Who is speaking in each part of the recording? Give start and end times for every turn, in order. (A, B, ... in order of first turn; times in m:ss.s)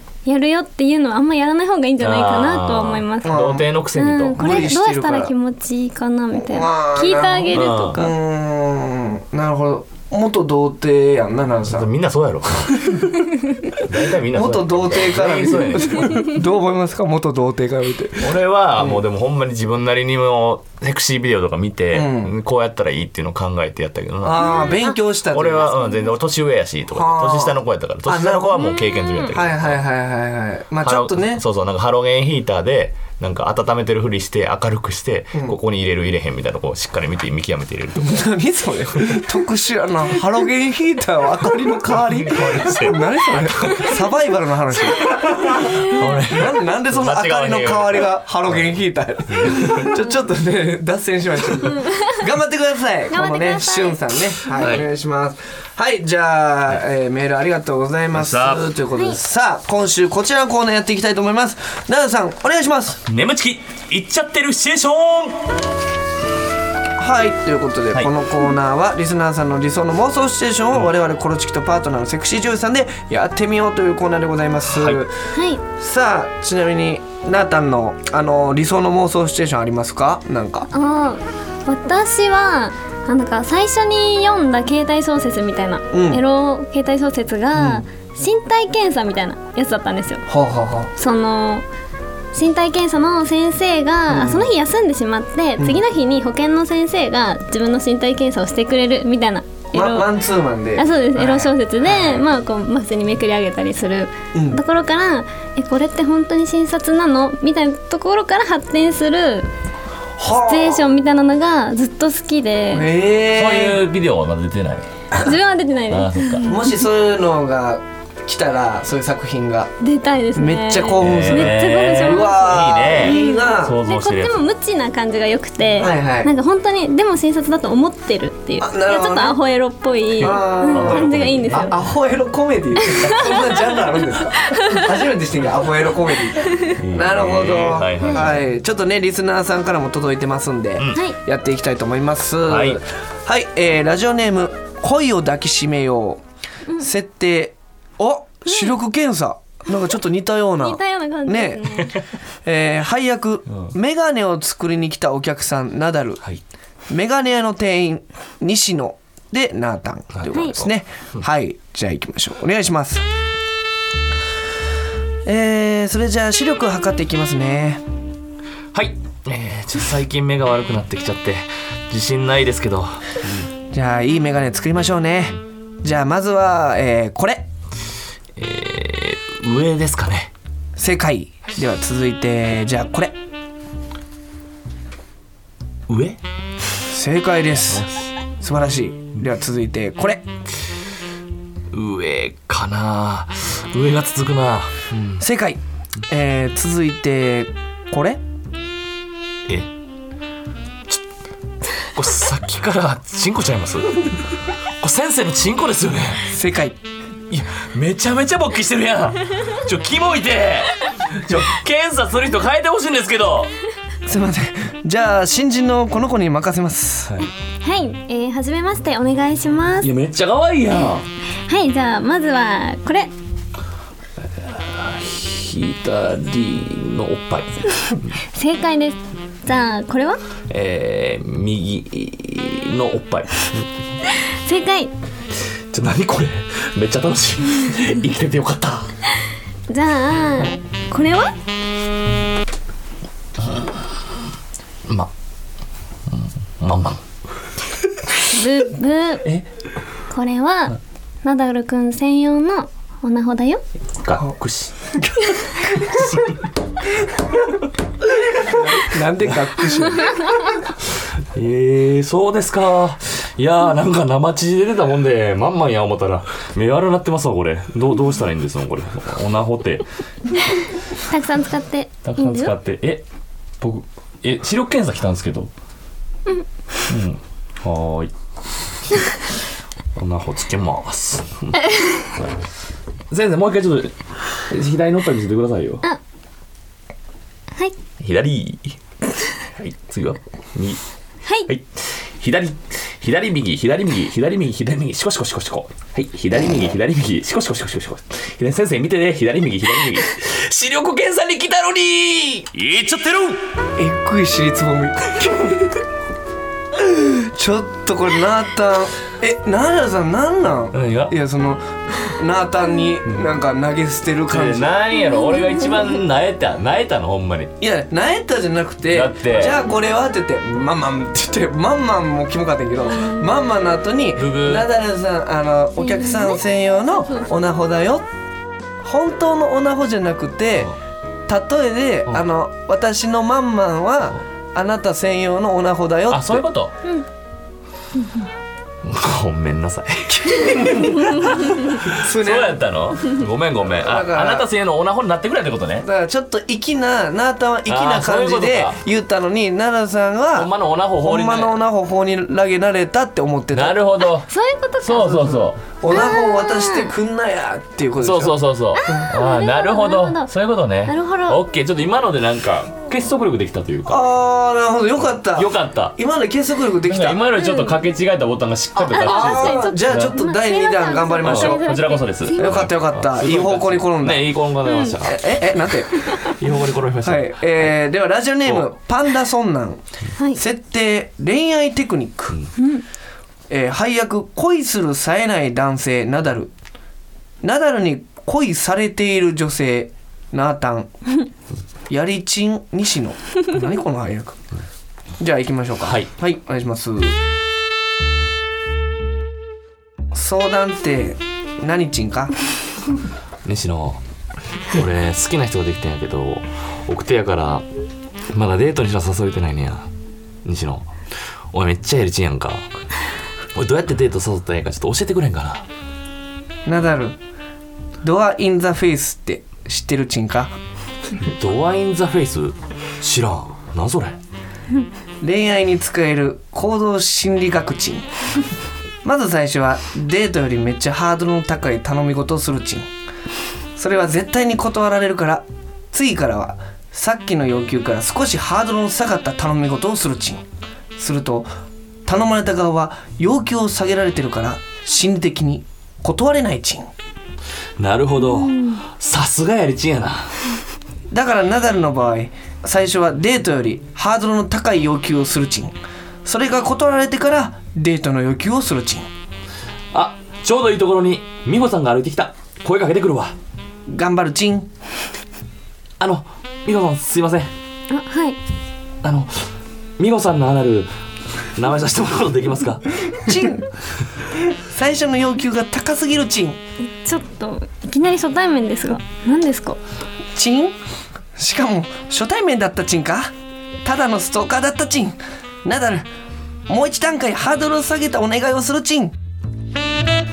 0:00.2-0:03.4 A
0:02.0-0:04.6 B
0:03.2-0:03.6 C
0:04.0-0:08.2 A
0:04.3-0:05.3 C
0:06.3-0:11.9 C
0:07.5-0:08.0 B
0:11.6-0:13.1 B
0:12.6-0:13.4 C
0:13.7-0:16.4 B
0:14.2-0:19.0 C
0:18.2-0:24.7 B
0:21.9-0:22.3 C
0:24.2-0:25.7 C
0:24.4-0:25.0 A
0:25.3-0:29.8 B
0:26.9-0:28.6 C
0:28.6-0:29.2 A
0:29.3-0:31.4 C
0:30.8-0:38.2 B
0:35.3-0:35.6 C
0:38.0-1:03.0 C
0:41.9-0:43.9 B
0:45.0-0:48.1 B
0:49.3-0:49.9 B
0:53.1-0:54.8 A
0:54.5-0:54.9 B
0:58.1-0:58.7 B
1:03.1-1:05.5 B
1:07.0-1:15.2 C
1:14.7-1:15.0 B
1:15.3-1:15.6 A
1:15.7-1:20.7 C
1:20.7-1:30.2 A
1:25.9-1:26.2 C
1:27.6-1:27.8 C
1:30.3-1:30.9 C
1:30.9-1:31.6 A
1:32.3-1:40.1 A
1:34.1-1:34.5 C
1:39.7-1:42.2 C
1:40.8-1:49.5 A
1:44.3-1:44.6 C
1:50.2-1:50.9 C
1:50.5-1:52.9 A
1:52.7-1:53.8 C
1:53.3-1:54.9 B
1:55.2-1:56.6 A
1:55.9-1:56.6 B
1:56.4-1:59.7 C
1:59.8-2:11.7 A
2:00.3-2:03.8 C
2:01.0-2:04.4 B
2:05.8-2:06.3 C
2:08.6-2:09.4 C
2:10.2-2:11.8 B
2:10.2-2:26.2 C
2:12.8-2:13.7 A
2:14.5-2:14.9 A
2:16.5-2:16.7 A
2:16.7-2:18.4 B
2:22.5-2:22.8 B
2:26.8-2:31.8 C
2:30.6-2:31.9 A
2:32.4-2:36.2 C
2:36.9-2:43.0 C
2:40.2-2:41.2 B
2:40.3-2:40.6 A
2:45.2-2:47.8 C
2:48.7-2:53.3 B
2:53.7-2:57.4 C
2:58.4-3:00.3 B
3:00.8-3:03.1 C
3:05.9-3:06.2 B
3:06.8-3:07.9 C
3:07.7-3:08.1 B
3:08.4-3:10.3 C
3:11.7-3:15.2 B
3:15.2-3:18.2 C
3:21.9-3:24.2 B
3:24.8-3:26.3 B
3:26.2-3:26.8 C
3:27.3-3:33.5 B
3:34.0-3:37.1 C
3:37.6-3:39.9 A
3:39.8-3:41.0 B
3:41.5-3:43.1 A
3:44.2-3:48.1 B
3:48.3-3:50.2 A
3:50.5-3:53.6 B
3:54.1-3:54.9 A
3:55.7-3:58.9 B
3:59.7-4:01.3 A
4:03.4-4:03.8 B
4:06.1-4:07.0 B
4:08.3-4:09.2 A
4:10.1-4:13.6 A
4:14.0-4:14.7 B
4:14.9-4:16.3 C
4:15.8-4:16.4 B
4:18.5-4:20.2 C
4:21.3-4:29.8 B
4:31.1-4:32.5 A
4:32.0-4:33.0 B
4:33.6-4:35.5 B
4:36.9-4:38.1 B
4:40.0-4:41.6 B
4:43.1-4:43.9 B
4:44.5-4:45.8 B
4:48.0-4:48.8 B
4:49.5-4:50.8 B
4:51.5-5:03.4 B
5:03.8-5:05.8 C
5:06.7-5:14.7 C
5:10.7-5:11.1 B
5:13.1-5:13.3 B
5:14.3-5:17.5 B
5:17.6-5:28.1 C
5:18.9-5:19.6 B
5:22.8-5:23.3 A
5:24.2-5:24.7 B
5:25.8-5:26.4 A
5:28.8-5:30.7 C
5:31.3-5:36.5 C
5:36.1-5:36.7 B
5:38.8-5:45.9 B
5:40.1-5:42.6 C
5:43.8-5:44.5 C
5:45.8-5:50.5 C
5:47.7-5:48.8 B
5:50.3-5:51.5 B
5:51.0-5:53.8 C
5:53.5-5:54.3 B
5:54.3-5:55.3 A
5:54.8-5:55.6 B
5:55.1-5:59.0 C
5:55.9-5:56.9 A
5:58.0-6:04.0 B
5:58.8-6:00.3 A
6:00.8-6:01.4 A
6:03.9-6:07.2 C
6:05.3-6:06.0 B
6:06.8-6:10.2 B
6:07.4-6:07.8 A
6:08.9-6:12.5 A
6:09.0-6:11.8 C
6:11.2-6:15.3 B
6:12.4-6:14.4 C
6:15.0-6:16.1 C
6:16.1-6:17.7 B
6:17.0-6:19.8 C
6:20.3-6:22.4 C
6:22.6-6:22.8 A
6:23.5-6:26.5 C
6:27.4-6:30.9 C
6:31.9-6:34.4 C
6:35.2-6:37.2 C
6:35.8-6:36.1 B
6:40.1-6:42.3 C
6:43.4-6:44.0 B
6:44.7-6:47.6 B
6:48.3-6:49.9 B
6:50.4-6:50.9 B
6:51.5-6:52.7 B
6:53.5-6:55.6 B
6:56.6-6:57.2 C
6:58.0-7:00.5 C
7:01.2-7:04.2 B
7:05.2-7:08.0 C
7:09.0-7:12.9 C
7:13.8-7:20.4 C
7:21.0-7:21.5 C
7:22.0-7:26.9 C
7:27.8-7:30.5 B
7:28.2-7:28.8 A
7:31.1-7:39.1 C
7:39.9-7:43.3 B
7:43.9-7:44.7 C
7:46.0-7:47.5 B
7:47.9-7:48.4 A
7:49.0-7:49.5 B
7:50.0-7:50.9 B
7:51.5-7:52.9 B
7:53.2-7:53.6 C
7:54.5-7:56.6 C
7:57.0-7:59.8 A
8:00.3-8:00.8 C
8:01.4-8:03.3 C
8:03.8-8:06.1 C
8:06.7-8:09.1 C